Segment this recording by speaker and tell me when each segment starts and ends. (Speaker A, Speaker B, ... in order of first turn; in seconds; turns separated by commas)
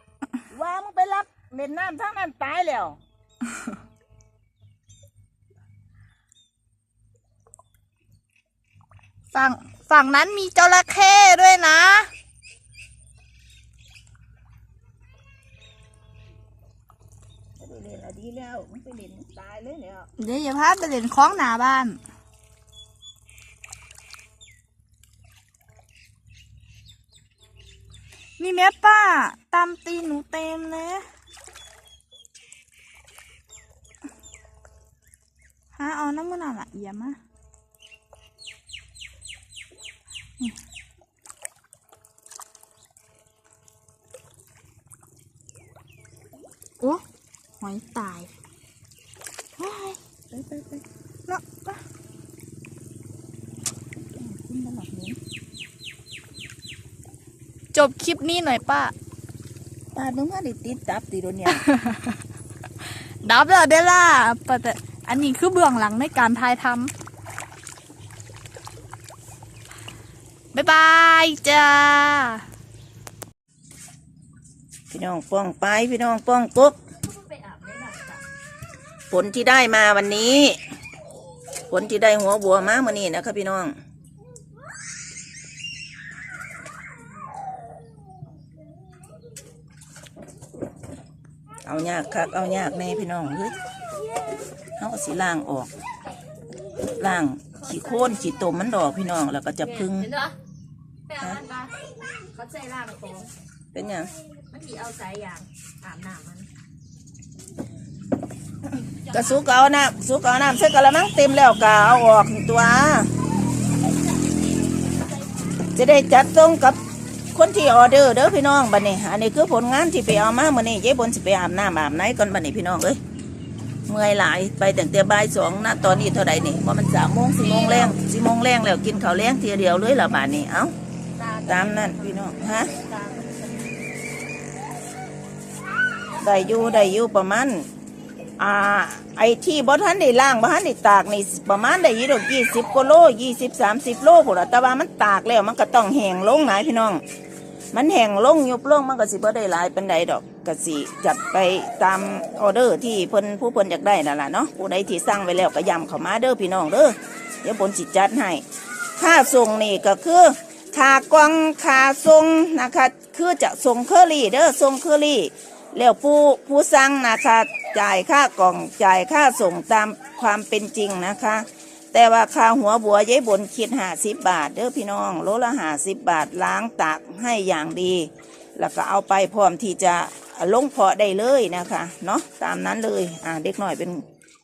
Speaker A: 0.5-3.0, Speaker B: 9.3-12.1, Speaker A: 17.6-20.1, Speaker B: 20.2-22.0, Speaker B: 28.4-31.0, Speaker B: 35.7-37.2, Speaker B: 47.6-48.3, Speaker B: 49.6-50.0, Speaker A: 50.3-50.8, Speaker B: 51.3-51.8, Speaker A: 54.1-55.2, Speaker B: 57.7-58.9, Speaker A: 60.0-61.6, Speaker B: 61.5-62.2, Speaker B: 62.8-66.9, Speaker B: 70.5-72.4, Speaker A: 74.9-76.8, Speaker C: 77.1-78.2, Speaker A: 79.1-80.5, Speaker A: 81.7-83.7, Speaker A: 91.6-93.5, Speaker A: 94.8-95.7, Speaker A: 97.0-100.1, Speaker C: 99.8-100.3, Speaker C: 101.1-103.3, Speaker A: 103.7-104.1, Speaker C: 104.5-106.5, Speaker A: 109.1-113.1, Speaker A: 115.7-116.8, Speaker A: 117.3-123.0, Speaker A: 123.9-130.7, Speaker C: 131.2-133.8, Speaker A: 131.4-132.8, Speaker A: 136.2-137.6, Speaker A: 138.4-147.0, Speaker A: 147.7-158.4, Speaker A: 159.0-184.0